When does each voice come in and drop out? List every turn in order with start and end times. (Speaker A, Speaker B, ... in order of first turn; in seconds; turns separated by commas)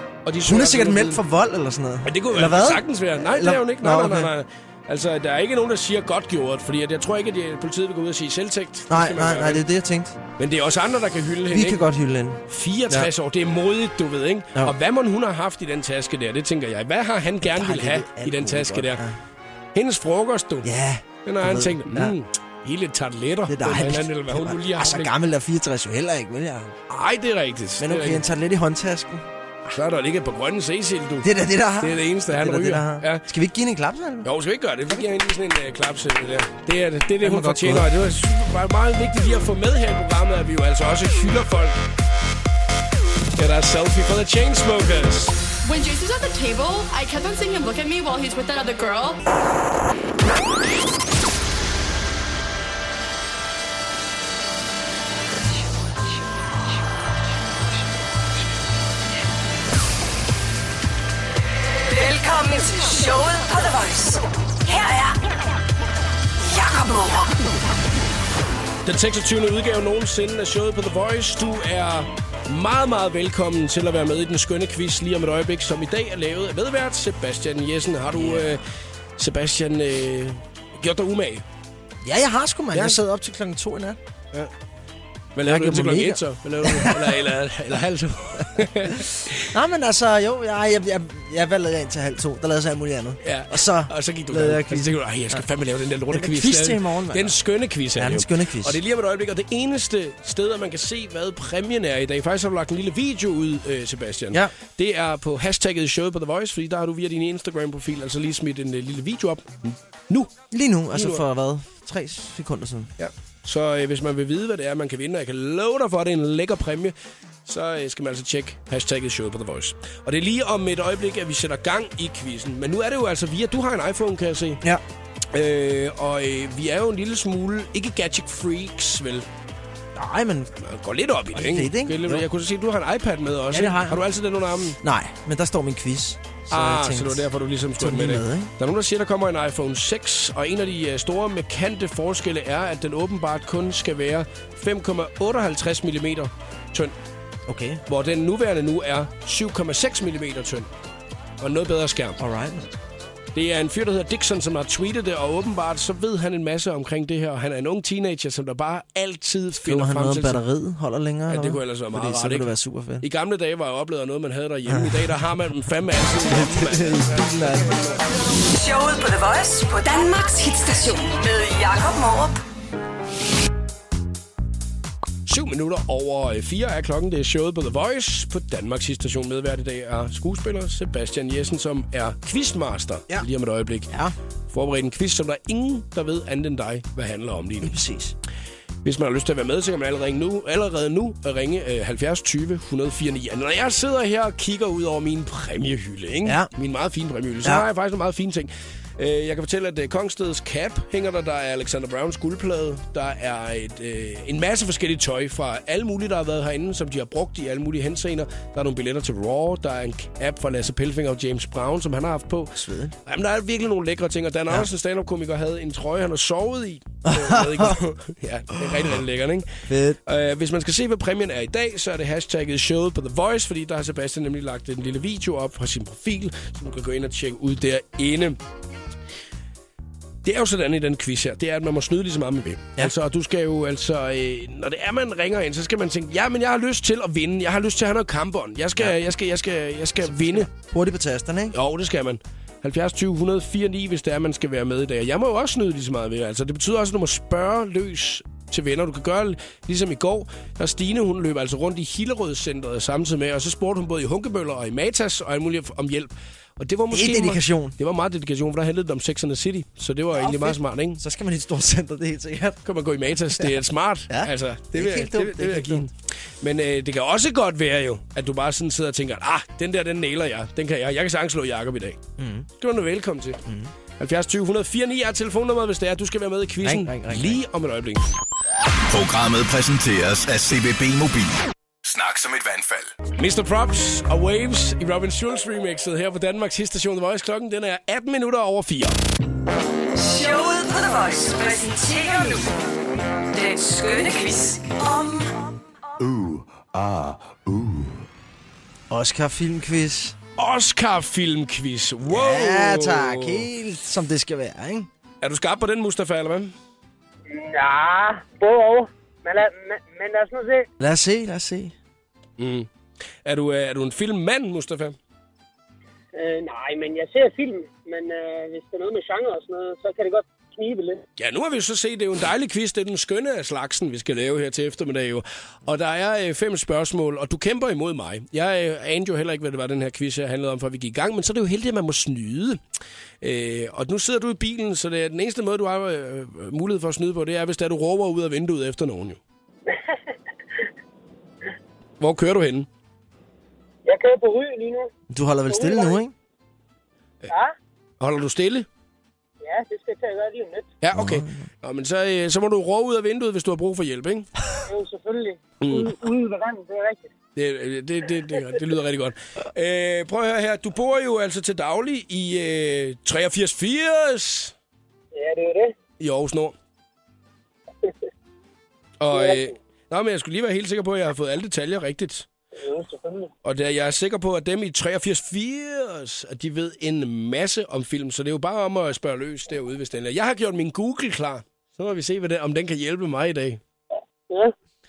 Speaker A: 0.2-1.2, Speaker B: 0.5-4.3, Speaker A: 2.0-9.6, Speaker B: 8.9-10.2, Speaker A: 10.4-11.8, Speaker B: 11.5-13.1, Speaker A: 12.5-19.0, Speaker B: 17.4-19.2, Speaker A: 19.8-20.7, Speaker B: 20.6-22.1, Speaker A: 21.2-25.1, Speaker B: 23.5-26.8, Speaker A: 26.9-28.2, Speaker B: 27.8-29.3, Speaker A: 29.7-33.2, Speaker B: 31.2-34.3, Speaker A: 34.2-41.8, Speaker B: 37.2-37.9, Speaker A: 43.4-45.4, Speaker C: 45.6-49.2, Speaker D: 61.8-65.2, Speaker D: 66.4-67.4, Speaker A: 68.8-78.6, Speaker B: 78.2-78.6, Speaker A: 79.2-81.4, Speaker B: 82.0-84.0, Speaker A: 82.7-83.0, Speaker A: 85.4-89.5, Speaker B: 85.5-87.2, Speaker B: 89.5-95.4, Speaker A: 93.2-110.3, Speaker B: 96.1-97.3, Speaker B: 98.0-98.8, Speaker B: 110.5-112.9, Speaker A: 110.9-111.2, Speaker A: 113.0-116.9, Speaker A: 117.5-124.6, Speaker A: 125.3-129.3, Speaker B: 129.9-130.5, Speaker A: 130.6-134.8, Speaker B: 131.3-132.3, Speaker B: 133.5-134.0, Speaker B: 134.8-137.3, Speaker A: 136.5-146.9, Speaker B: 137.8-138.5, Speaker B: 147.5-147.8, Speaker A: 147.9-150.7, Speaker A: 151.4-152.2, Speaker B: 152.2-152.8, Speaker A: 153.3-160.4, Speaker B: 159.6-163.1, Speaker A: 161.3-168.0, Speaker B: 164.7-165.2, Speaker B: 166.3-167.8, Speaker D: 168.4-172.4, Speaker A: 175.3-183.9, Speaker A: 184.5-187.8, Speaker B: 187.6-188.2, Speaker A: 188.8-228.4, Speaker B: 212.6-212.9, Speaker B: 217.1-217.8, Speaker B: 219.7-220.0, Speaker A: 230.2-240.5, Speaker B: 240.1-241.6, Speaker A: 241.5-261.0, Speaker B: 256.9-257.8, Speaker B: 260.1-262.6, Speaker A: 262.6-272.0, Speaker B: 264.1-265.9, Speaker B: 272.2-272.5, Speaker A: 272.6-273.4, Speaker B: 273.5-273.7, Speaker A: 274.0-278.0, Speaker B: 276.6-277.4, Speaker E: 278.9-282.9, Speaker A: 283.2-289.0, Speaker D: 289.9-292.5, Speaker D: 293.3-295.3, Speaker B: 298.9-300.2, Speaker A: 300.4-303.5, Speaker B: 302.1-304.9, Speaker A: 305.2-306.5, Speaker F: 307.3-310.7, Speaker B: 310.8-311.7, Speaker A: 312.4-312.7, Speaker A: 313.2-315.0, Speaker F: 316.1-321.1, Speaker A: 321.2-332.6, Speaker A: 333.2-339.2, Speaker F: 339.7-340.0, Speaker A: 342.0-342.7, Speaker F: 343.9-344.9, Speaker B: 345.1-346.1, Speaker F: 345.5-346.0, Speaker F: 347.3-347.6, Speaker A: 348.0-348.7, Speaker F: 349.4-350.7, Speaker A: 350.8-354.3, Speaker B: 350.9-351.5, Speaker F: 354.7-357.1, Speaker A: 355.6-356.0, Speaker A: 357.4-364.5, Speaker F: 365.1-365.8, Speaker A: 366.0-366.6, Speaker A: 369.0-372.3, Speaker F: 369.1-369.5, Speaker F: 372.6-373.3, Speaker A: 373.4-383.6